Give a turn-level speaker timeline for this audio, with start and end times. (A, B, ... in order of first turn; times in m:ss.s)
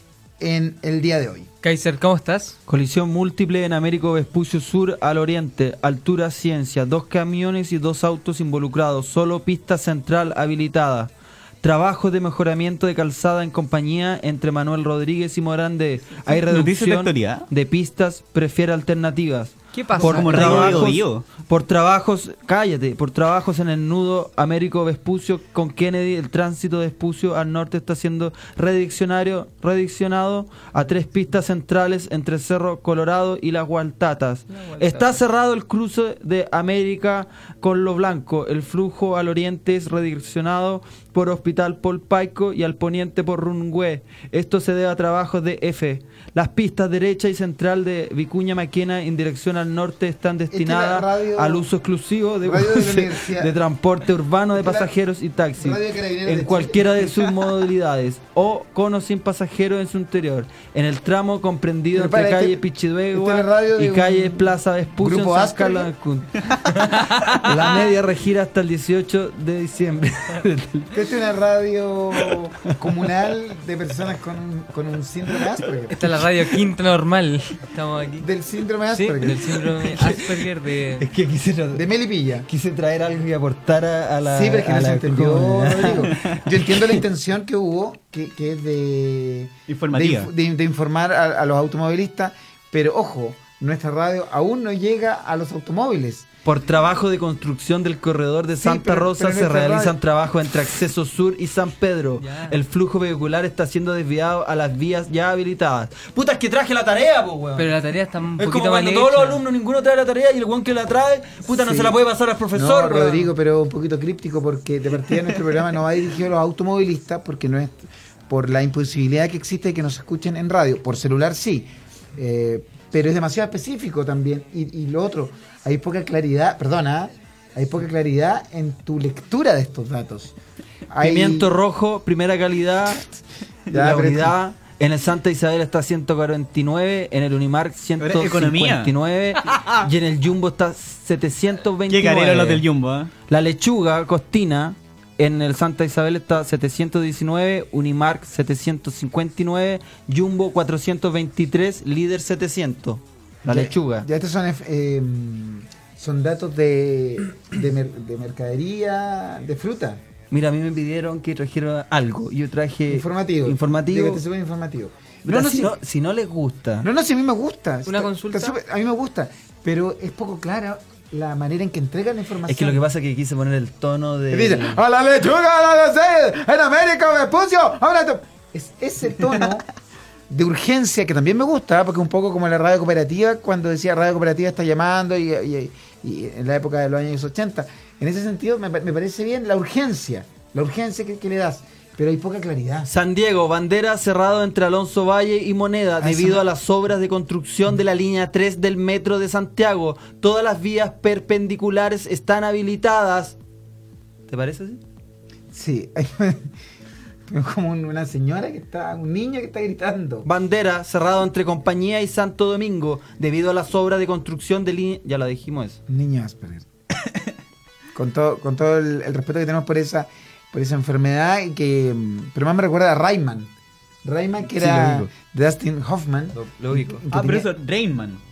0:00.4-0:01.5 A
0:01.6-0:02.6 B
0:02.7-1:10.9 C
0:16.2-0:17.5 D
0:19.7-0:20.8 B
0:20.0-0:21.2 D
0:34.6-0:35.1 B
0:50.5-0:51.7 A
0:52.4-0:53.5 A
0:54.6-0:54.9 A
0:55.6-0:57.3 A
1:01.9-1:05.9 A
1:06.9-1:07.6 B
1:10.9-1:16.1 A
1:15.9-1:18.3 B
1:18.2-1:19.6 A
1:18.9-1:21.0 B
1:19.8-1:20.2 C
1:21.0-1:21.8 C
1:21.7-1:22.5 A
1:22.5-1:27.0 C
1:24.3-1:36.3 A
1:29.7-1:30.3 D
1:36.4-1:47.7 C
1:38.6-1:40.0 A
1:42.2-1:42.6 B
1:47.6-1:49.4 B
1:48.4-1:53.3 C
1:51.5-1:52.0 A
1:52.5-2:10.3 A
2:10.9-2:11.5 A
2:11.0-2:13.1 C
2:13.7-2:22.6 C
2:13.7-2:14.3 A
2:18.0-2:18.9 D
2:21.9-2:23.1 D
2:23.3-2:34.1 C
2:33.4-2:40.0 A
2:40.3-2:44.2 C
2:42.9-2:45.8 A
2:45.3-2:46.9 C
2:46.8-2:52.8 A
2:47.8-2:48.6 B
2:52.5-2:54.8 C
2:54.3-2:59.7 A
3:00.3-3:12.9 A
3:12.9-3:23.4 C
3:16.0-3:16.4 A
3:24.3-3:24.8 C
3:25.5-3:26.5 A
3:27.3-3:30.3 A
3:30.2-3:35.8 C
3:35.9-3:36.7 A
3:37.9-3:43.5 A
3:44.0-3:47.5 A
3:44.5-3:45.1 C
3:46.3-3:47.0 C
3:47.1-3:48.2 D